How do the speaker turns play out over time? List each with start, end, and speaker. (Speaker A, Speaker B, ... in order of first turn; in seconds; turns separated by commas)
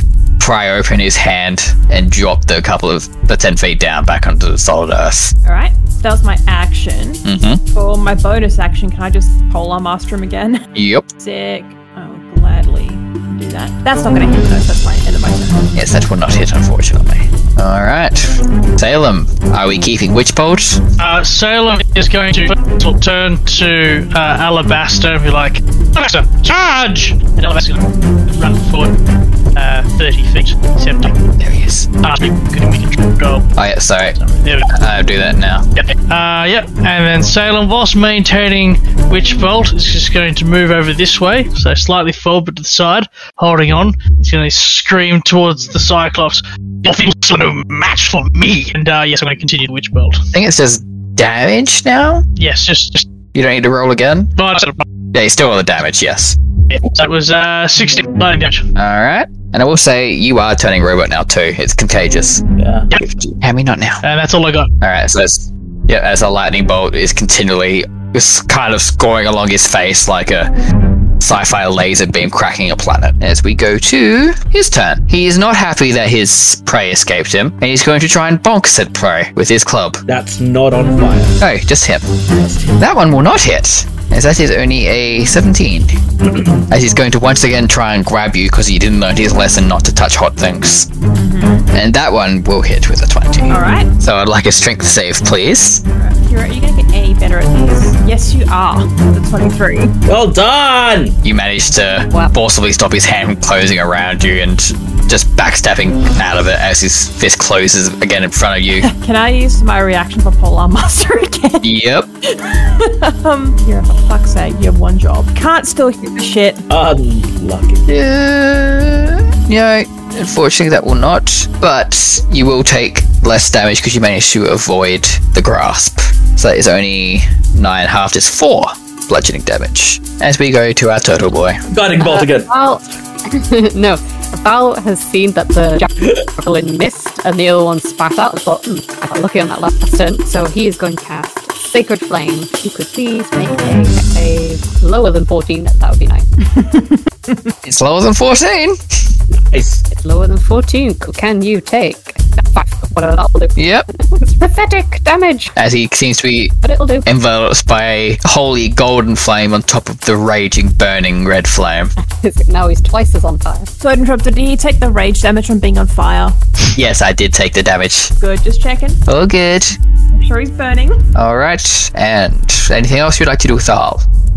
Speaker A: 0.4-5.3, Speaker B: 5.4-15.7, Speaker A: 7.2-7.6, Speaker A: 10.7-11.1, Speaker A: 15.7-20.8, Speaker C: 21.0-28.9, Speaker C: 29.5-31.2, Speaker A: 31.4-31.9, Speaker C: 32.0-33.5, Speaker A: 33.5-35.6, Speaker C: 34.1-34.7, Speaker C: 35.8-50.3, Speaker A: 50.3-52.2, Speaker C: 52.4-53.1, Speaker A: 53.3-54.3, Speaker C: 54.4-54.8, Speaker A: 55.1-56.4, Speaker C: 56.7-58.6, Speaker A: 58.7-62.4, Speaker D: 62.6-62.9, Speaker A: 63.3-64.0, Speaker C: 64.0-64.7, Speaker A: 64.8-70.5, Speaker A: 71.2-80.0, Speaker D: 80.1-81.4, Speaker A: 81.4-82.1, Speaker D: 82.3-82.8, Speaker A: 82.8-85.9, Speaker D: 86.2-86.6, Speaker A: 86.7-90.9, Speaker B: 91.1-91.7, Speaker A: 91.7-95.8, Speaker B: 93.5-93.9, Speaker B: 95.9-99.9, Speaker D: 100.0-101.2, Speaker A: 101.2-108.9, Speaker B: 108.8-111.7, Speaker A: 111.6-112.1, Speaker B: 112.2-116.6, Speaker D: 116.7-117.9, Speaker A: 117.9-131.6, Speaker D: 131.7-132.5, Speaker E: 132.0-146.2, Speaker A: 147.6-148.9, Speaker D: 149.5-149.8, Speaker E: 149.9-155.5, Speaker A: 153.6-153.8, Speaker A: 155.6-161.9, Speaker E: 156.6-157.1, Speaker E: 162.2-163.7, Speaker B: 163.8-166.4, Speaker A: 166.7-168.1, Speaker B: 168.2-169.0, Speaker A: 169.1-169.8, Speaker B: 170.1-171.0, Speaker A: 171.1-174.1